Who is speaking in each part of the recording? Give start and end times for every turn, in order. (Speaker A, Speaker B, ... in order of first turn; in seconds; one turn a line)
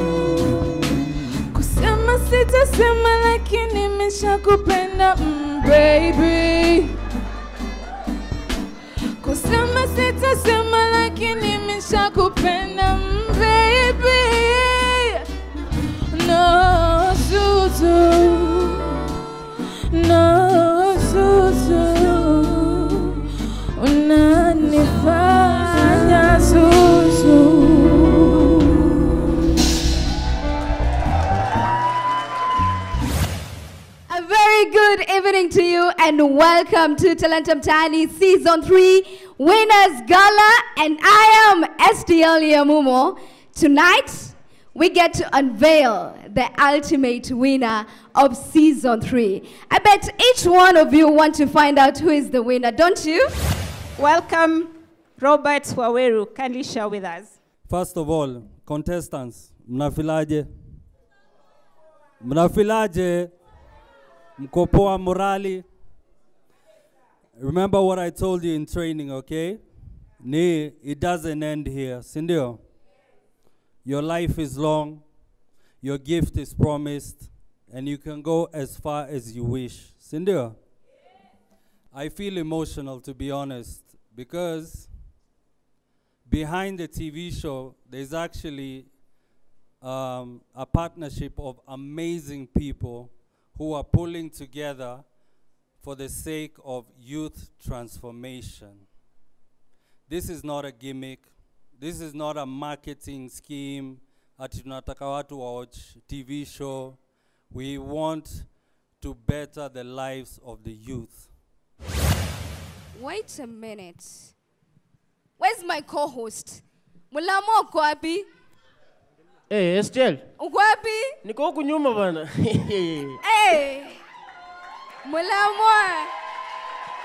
Speaker A: 1.5-6.9
Speaker A: 9.2-15.2
Speaker A: 16.1-19.1
Speaker A: 19.9-29.0
Speaker B: 34.1-53.3
Speaker C: 54.0-57.3
Speaker D: 57.7-60.5
Speaker D: 62.2-63.3
Speaker D: 64.4-65.7
Speaker D: 67.4-69.7
Speaker D: 70.2-72.6
Speaker D: 73.8-75.1
Speaker D: 75.8-80.6
Speaker D: 81.9-84.9
Speaker D: 86.3-88.9
Speaker D: 89.8-95.1
Speaker D: 95.8-98.9
Speaker D: 100.1-111.3
Speaker B: 112.9-114.3
Speaker B: 115.4-118.3
Speaker E: 119.5-120.2
Speaker B: 120.4-121.2
Speaker E: 121.2-123.2
Speaker B: 123.2-124.0
Speaker B: 125.0-126.1